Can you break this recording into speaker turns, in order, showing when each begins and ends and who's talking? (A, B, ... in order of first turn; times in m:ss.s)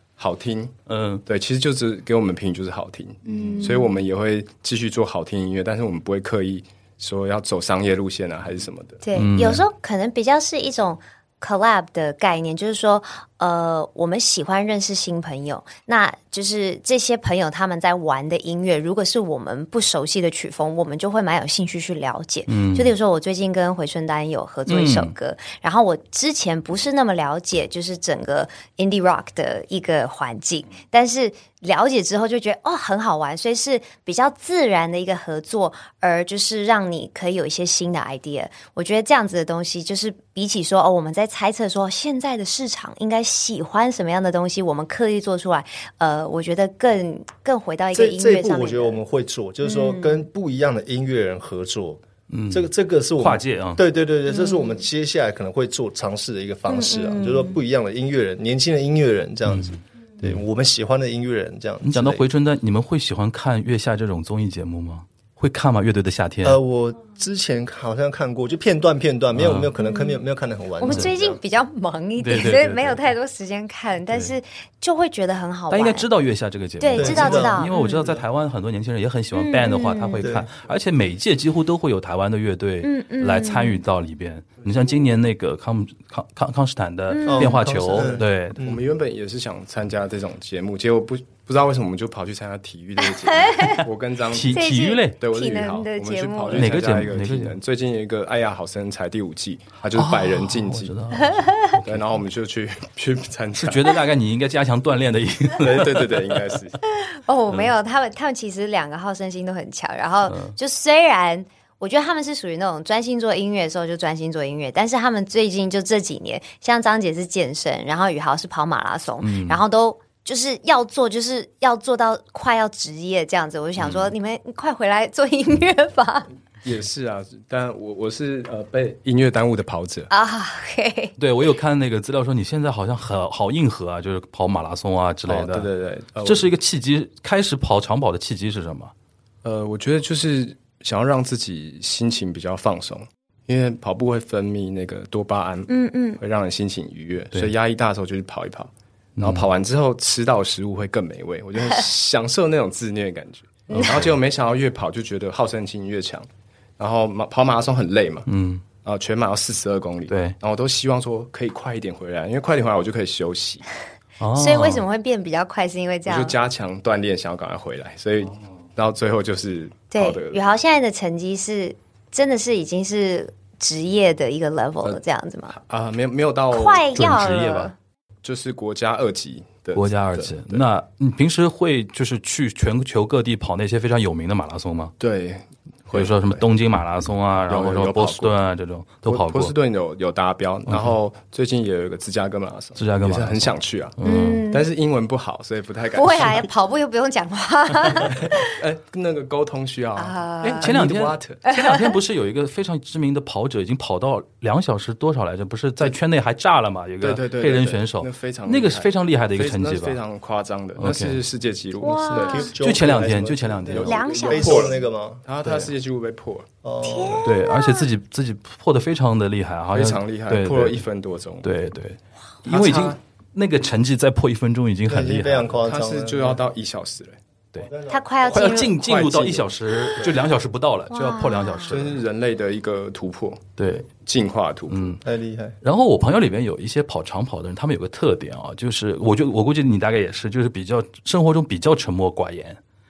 0:00.2-0:00.7 A
0:00.9-0:01.2 B
0:01.2-0:09.0 A
0:03.3-0:03.9 C
0:09.0-0:49.0 C
0:09.1-0:09.6 B
0:22.5-0:22.9 B
0:24.7-0:25.1 B
0:47.9-1:02.2 D
0:49.6-0:50.2 C
0:52.3-0:53.8 B
0:54.3-0:54.8 C
0:56.7-0:57.6 C
0:59.5-1:00.4 B
1:01.8-1:06.6 B
1:06.4-1:11.4 D
1:09.3-1:09.7 B
1:09.8-1:10.2 C
1:10.8-1:16.1 C
1:12.2-1:13.1 B
1:14.1-1:14.3 B
1:15.7-1:28.6 B
1:16.8-1:18.0 C
1:17.0-1:17.7 D
1:19.3-1:20.2 C
1:20.2-1:20.5 D
1:22.8-1:23.8 C
1:24.6-1:25.0 A
1:27.1-1:27.6 C
1:27.2-1:28.8 D
1:28.6-1:40.9 A
1:33.2-1:33.8 C
1:34.3-1:35.2 B
1:34.5-1:36.8 C
1:36.5-1:37.6 B
1:39.9-1:42.1 B
1:41.2-1:41.8 C
1:41.8-1:44.0 A
1:43.6-1:46.5 B
1:45.6-1:46.8 A
1:46.8-2:06.3 C
1:50.3-1:50.5 B
1:59.2-1:59.6 B
2:03.8-2:04.1 B
2:06.6-2:10.1 A
2:10.1-2:11.1 C
2:11.2-2:15.7 B
2:15.3-2:16.5 A
2:16.2-2:18.9 B
2:19.4-2:38.3 A
2:25.7-2:26.2 C
2:29.2-2:29.5 B
2:33.7-2:34.0 C
2:33.7-2:34.1 B
2:38.3-2:38.6 B
2:38.8-2:43.6 A
2:40.1-2:40.4 B
2:44.2-2:44.8 B
2:44.3-2:46.3 C
2:46.1-2:50.4 A
2:49.9-2:55.5 C
2:55.5-2:56.9 A
2:56.5-2:57.7 C
2:56.9-2:57.7 B
2:58.2-3:00.6 A
2:59.7-3:04.9 B
3:05.0-3:06.4 A
3:05.9-3:09.5 B
3:07.5-3:08.3 A
3:09.1-3:16.5 A
3:10.7-3:11.0 B
3:12.8-3:14.4 B
3:14.0-3:14.6 C
3:15.9-3:18.5 C
3:17.9-3:21.4 A
3:20.0-3:20.7 C
3:20.4-3:30.0 B
3:21.4-3:21.9 C
3:27.0-3:32.5 A
3:30.8-3:31.2 B
3:31.8-3:32.5 C
3:32.1-3:35.7 D
3:32.6-3:33.9 B
3:33.7-3:36.5 A
3:33.8-3:34.8 C
3:36.6-3:37.3 D
3:36.8-3:37.9 C
3:37.2-3:40.8 B
3:39.7-3:41.4 A
3:41.4-3:45.5 B
3:42.4-3:43.0 A
3:44.9-3:46.4 D
3:45.6-3:47.2 A
3:47.6-3:48.3 D
3:47.9-3:48.7 C
3:48.3-3:52.0 B
3:48.4-3:49.5 A
3:50.9-3:51.8 C
3:51.7-3:55.0 A
3:53.6-3:53.8 B
3:54.7-3:55.0 B
3:55.0-3:55.6 D
3:55.6-4:02.6 B